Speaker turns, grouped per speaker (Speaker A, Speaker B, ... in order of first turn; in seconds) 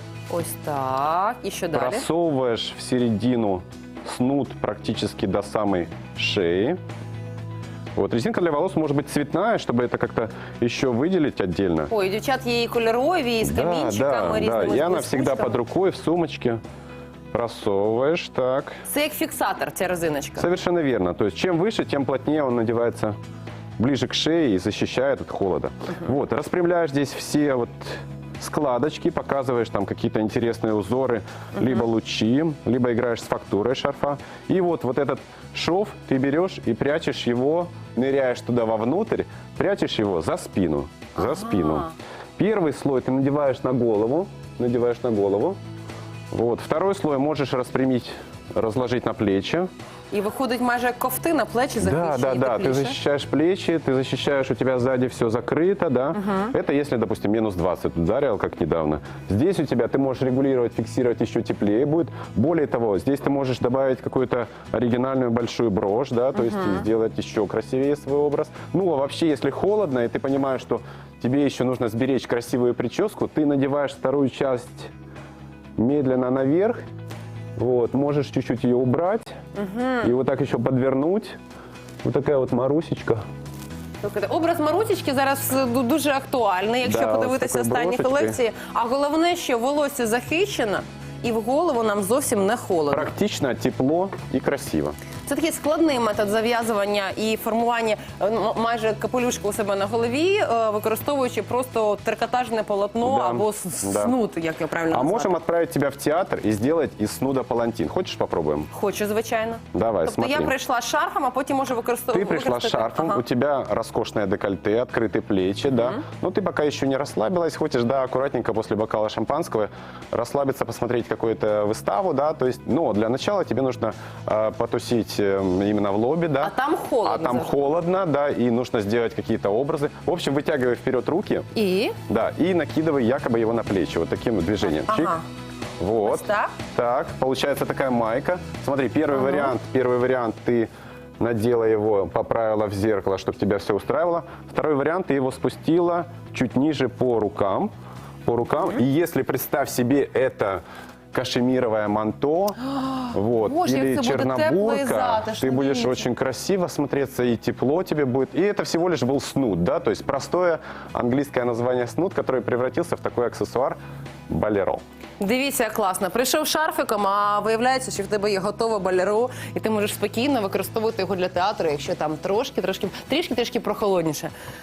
Speaker A: 0.3-2.0, 11.9-15.6, 18.9-20.5, 41.2-41.9, 50.1-53.0, 56.2-56.5, 66.4-66.8, 79.5-80.1, 84.0-93.1, 95.2-105.3, 108.7-113.2, 115.8-116.0, 126.4-127.6, 131.5-132.0, 134.6-135.2, 136.0-136.5, 139.1-139.5, 152.8-156.1, 165.2-174.3
Speaker B: 1.7-6.8, 8.0-11.9, 13.4-16.6, 17.3-18.8, 20.4-23.1, 23.8-45.6, 46.3-49.7, 51.8-74.9, 75.8-76.8, 77.6-79.3, 80.0-81.4, 82.0-83.2, 86.8-88.4, 92.9-95.0, 103.0-104.2, 104.9-108.7, 109.7-110.5, 112.1-126.5, 127.0-131.5, 132.1-135.1, 135.8-147.7, 148.2-150.6, 151.1-152.6, 153.1-164.8